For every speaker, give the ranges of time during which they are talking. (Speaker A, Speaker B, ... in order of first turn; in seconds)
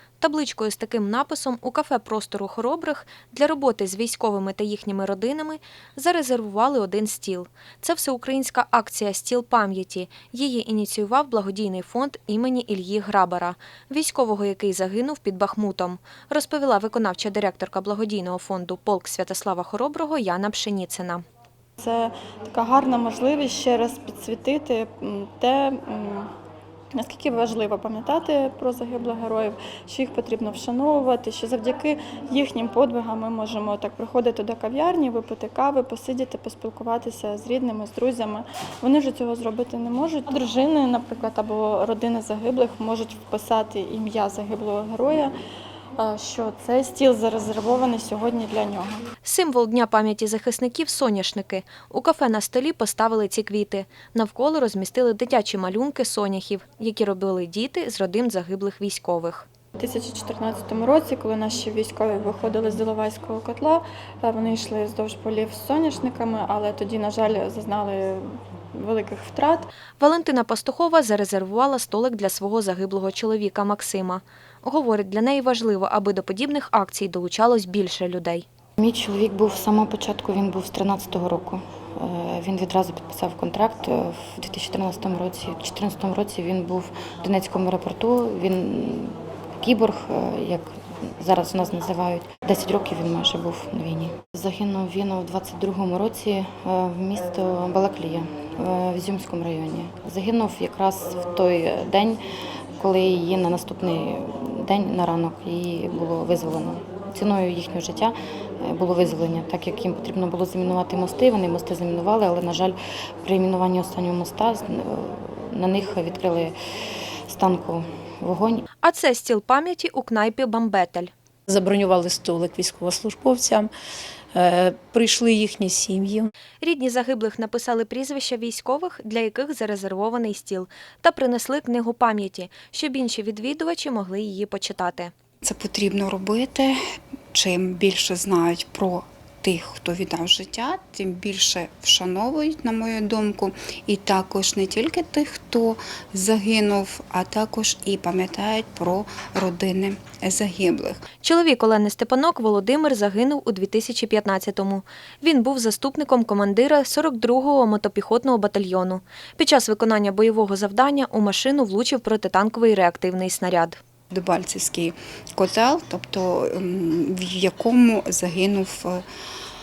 Speaker A: 0.2-21.2, 49.2-59.5, 70.0-78.5, 118.8-121.1, 126.6-135.1, 151.2-163.8
Speaker B: 21.8-26.3, 26.9-45.3, 46.0-49.0, 59.8-69.7
Speaker C: 78.8-102.2, 102.8-116.5, 117.3-118.7
Speaker D: 121.7-123.7, 124.4-125.8
Speaker E: 135.4-136.8, 137.3-151.0, 164.1-169.1